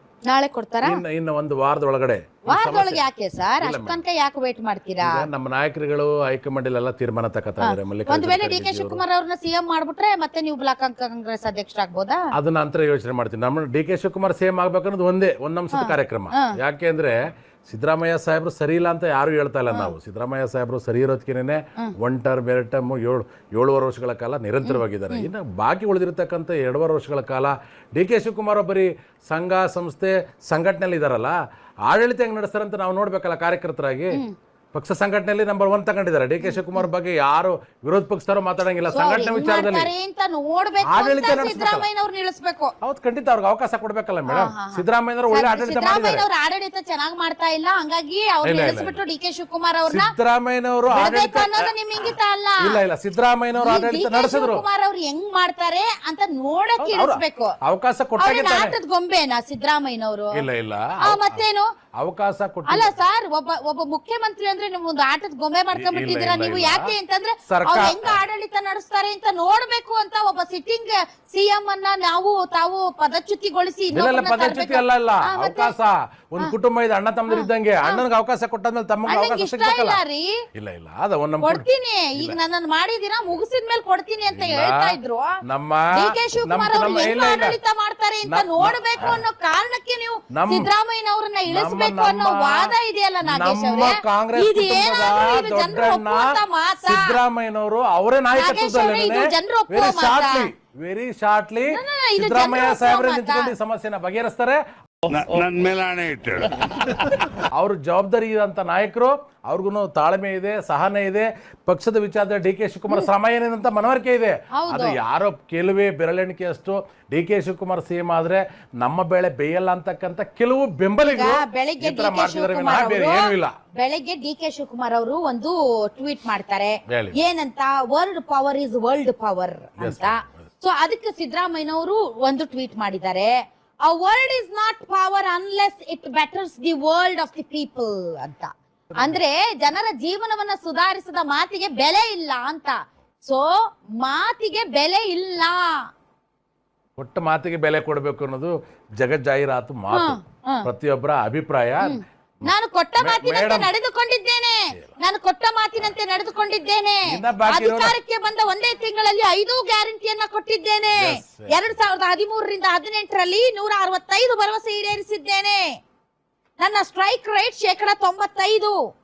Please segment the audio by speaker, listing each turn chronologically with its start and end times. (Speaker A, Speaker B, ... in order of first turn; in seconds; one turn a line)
Speaker A: 0.3-1.0
Speaker B: 0.8-3.1
Speaker A: 2.5-5.2
Speaker B: 3.6-4.0
Speaker B: 5.0-9.0
Speaker A: 7.6-12.2
Speaker B: 12.3-39.9
Speaker A: 15.7-16.6
Speaker A: 19.7-19.9
Speaker A: 24.6-25.3
Speaker A: 36.4-36.9
Speaker A: 38.9-42.7
Speaker B: 40.8-41.9
Speaker B: 42.8-46.2
Speaker A: 44.3-50.1
Speaker B: 48.4-49.0
Speaker B: 49.9-51.7
Speaker A: 50.9-52.8
Speaker B: 52.6-54.6
Speaker A: 53.6-57.6
Speaker B: 56.8-58.8
Speaker A: 58.2-60.4
Speaker B: 60.3-61.4
Speaker A: 61.0-61.7
Speaker B: 62.0-62.9
Speaker A: 62.7-75.7
Speaker B: 65.7-66.9
Speaker B: 67.5-68.2
Speaker B: 73.9-80.0
Speaker A: 77.3-78.0
Speaker A: 79.1-80.4
Speaker B: 80.5-82.4
Speaker A: 81.4-85.4
Speaker B: 84.3-87.6
Speaker A: 85.9-97.2
Speaker B: 88.2-89.2
Speaker B: 90.3-90.7
Speaker B: 91.5-104.6
Speaker A: 98.3-100.5
Speaker A: 101.7-103.5
Speaker C: 105.1-107.2
Speaker B: 107.5-123.5
Speaker A: 114.5-115.0
Speaker A: 121.1-133.3
Speaker B: 126.9-127.2
Speaker B: 129.8-130.5
Speaker A: 133.9-145.7
Speaker B: 147.0-153.7
Speaker A: 149.9-150.7
Speaker A: 151.8-165.8
Speaker B: 157.1-158.0
Speaker B: 160.9-161.6
Speaker A: 166.6-168.8